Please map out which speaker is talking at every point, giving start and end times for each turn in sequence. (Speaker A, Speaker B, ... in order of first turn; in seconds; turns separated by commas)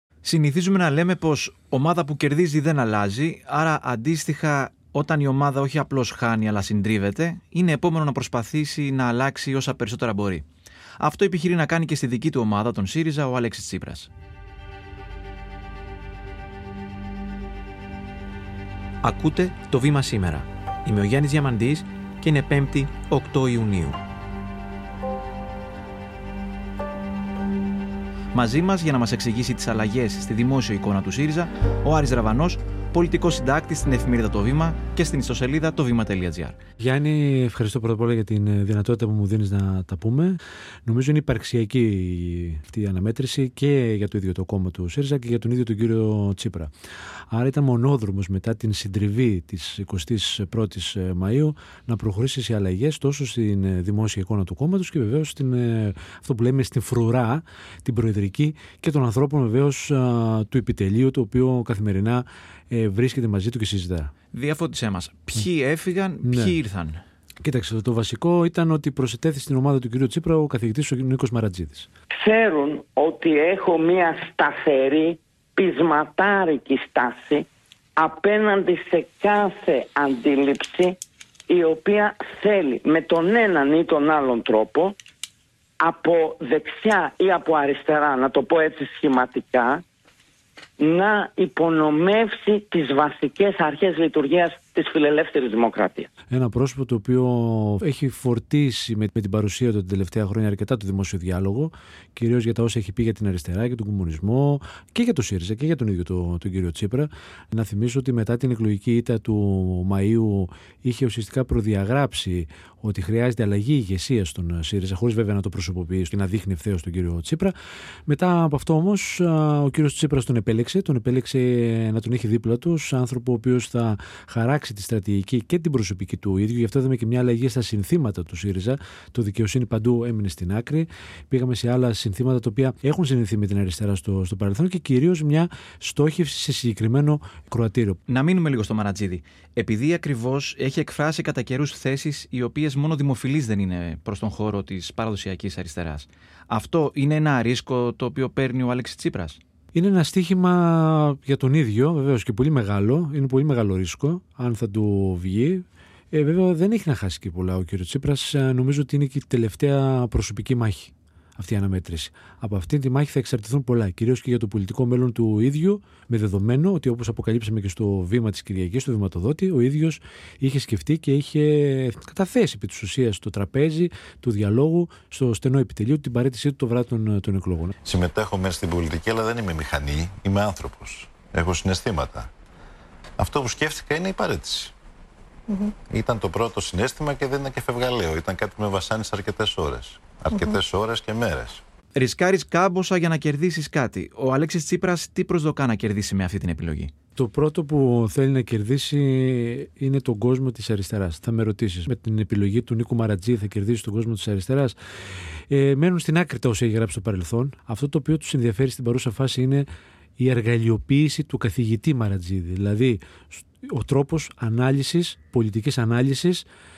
Speaker A: 0.2-10.4, Speaker A: 11.0-14.1, Speaker A: 19.0-24.0, Speaker A: 28.3-36.6, Speaker B: 36.8-46.7, Speaker B: 47.3-64.1, Speaker A: 64.3-67.0, Speaker B: 66.2-66.6, Speaker B: 67.4-71.9, Speaker C: 72.2-77.5, Speaker C: 78.0-81.0, Speaker C: 81.5-85.0, Speaker C: 85.8-89.8, Speaker C: 90.8-96.1, Speaker B: 96.3-117.5, Speaker B: 118.1-138.0, Speaker A: 138.1-149.4, Speaker B: 149.7-177.8, Speaker D: 177.9-182.3, Speaker D: 183.2-184.7, Speaker D: 185.8-191.6, Speaker A: 191.9-196.9, Speaker B: 197.2-204.8, Speaker B: 205.5-209.7, Speaker B: 210.2-216.4